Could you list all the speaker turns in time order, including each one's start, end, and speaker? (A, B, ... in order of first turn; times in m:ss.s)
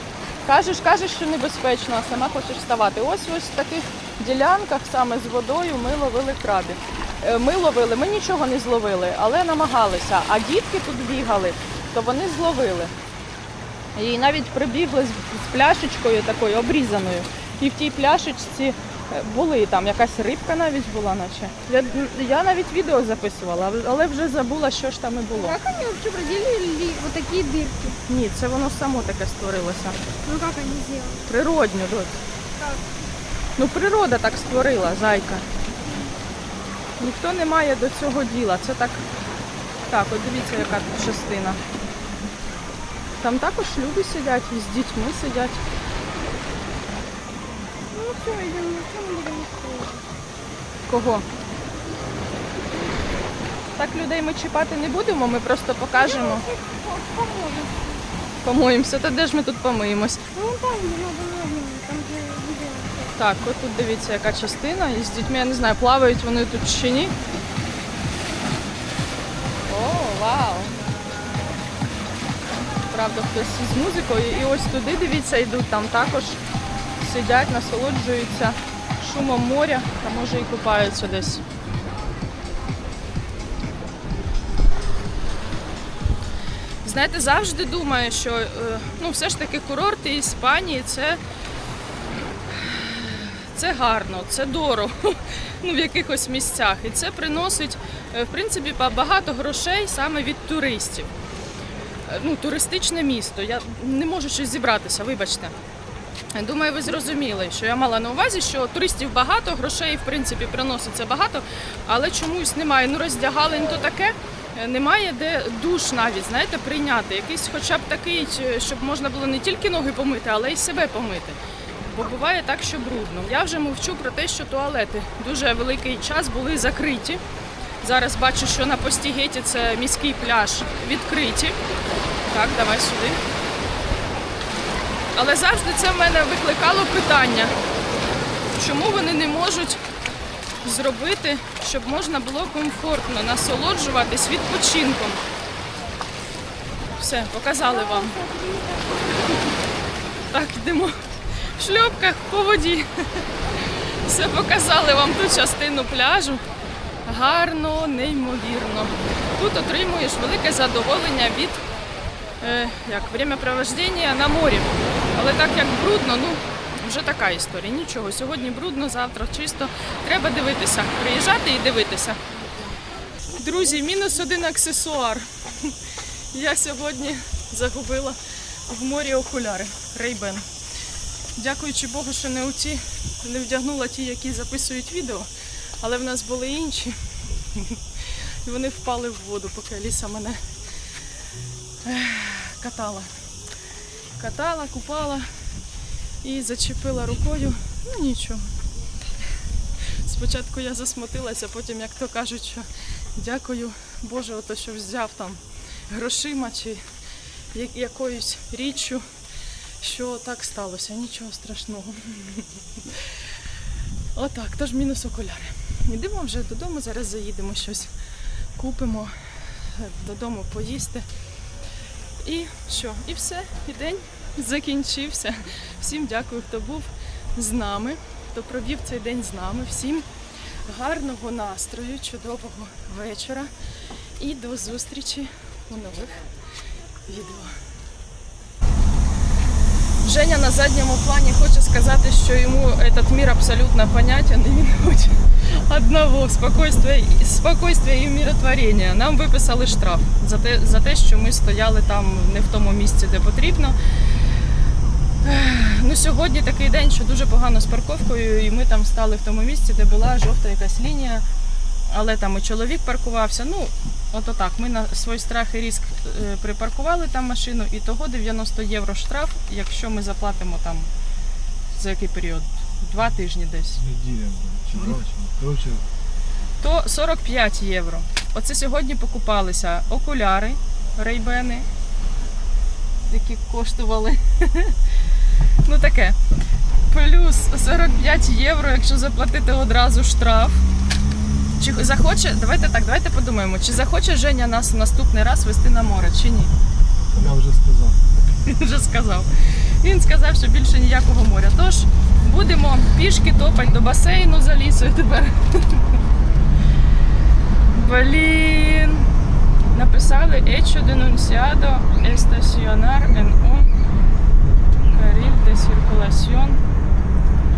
0:00.4-0:12.9 A
0:14.0-0:25.6 A
0:25.3-0:28.0 B
0:28.1-0:30.0 A
0:30.2-0:31.3 B
0:31.3-0:32.2 A
0:32.6-0:32.8 B
0:33.6-0:35.5 A
0:35.8-0:36.2 B
0:37.0-0:39.0 A
0:39.9-0:41.6 A
0:43.2-0:45.6 A
0:47.9-0:50.0 B
0:50.9-0:51.3 A
0:52.6-0:53.1 B
0:53.8-0:56.4 A
0:56.0-0:58.0 B
0:58.4-1:00.2 A
1:00.3-1:03.1 B
1:03.2-1:07.2 A
1:09.7-1:10.8 A
1:12.9-1:16.4 A
1:17.0-1:21.4 A
1:26.8-1:31.2 A
1:32.5-1:41.1 A
1:42.1-1:45.6 A
1:46.3-2:07.2 A
2:07.8-2:11.6 A
2:12.2-2:13.2 A
2:15.2-2:17.5 A
2:18.6-2:19.8 A
2:20.6-2:25.2 A
2:27.0-2:28.2 A
2:27.6-2:29.6 B
2:30.3-2:31.0 A
2:31.6-2:33.2 A
2:34.0-2:36.4 A
2:37.0-2:41.6 A
2:42.4-2:52.2 A
2:53.4-2:55.8 A
2:56.3-3:00.5 A
3:01.4-3:05.3 A
3:05.8-3:10.4 A
3:11.8-3:13.1 A
3:14.2-3:15.3 A
3:16.2-3:18.4 A
3:19.9-3:26.8 A
3:27.5-3:29.0 A
3:29.8-3:33.1 A
3:34.2-3:38.0 A
3:38.6-3:39.1 A
3:39.7-3:41.1 A
3:42.2-3:50.1 A
3:50.7-3:53.5 A
3:54.2-3:56.3 A
3:57.1-3:57.6 A
4:00.0-4:13.8 A
4:15.2-4:21.2 A
4:21.9-4:30.9 A
4:31.7-4:33.8 A
4:33.8-4:35.8 C
4:36.6-4:41.7 A
4:43.0-4:44.8 A
4:45.6-4:46.2 A
4:46.9-4:50.6 A
4:51.6-4:56.5 A
4:57.1-4:58.0 C
4:58.4-5:06.0 A
5:07.7-5:09.1 A
5:09.7-5:13.7 A
5:14.9-5:16.6 A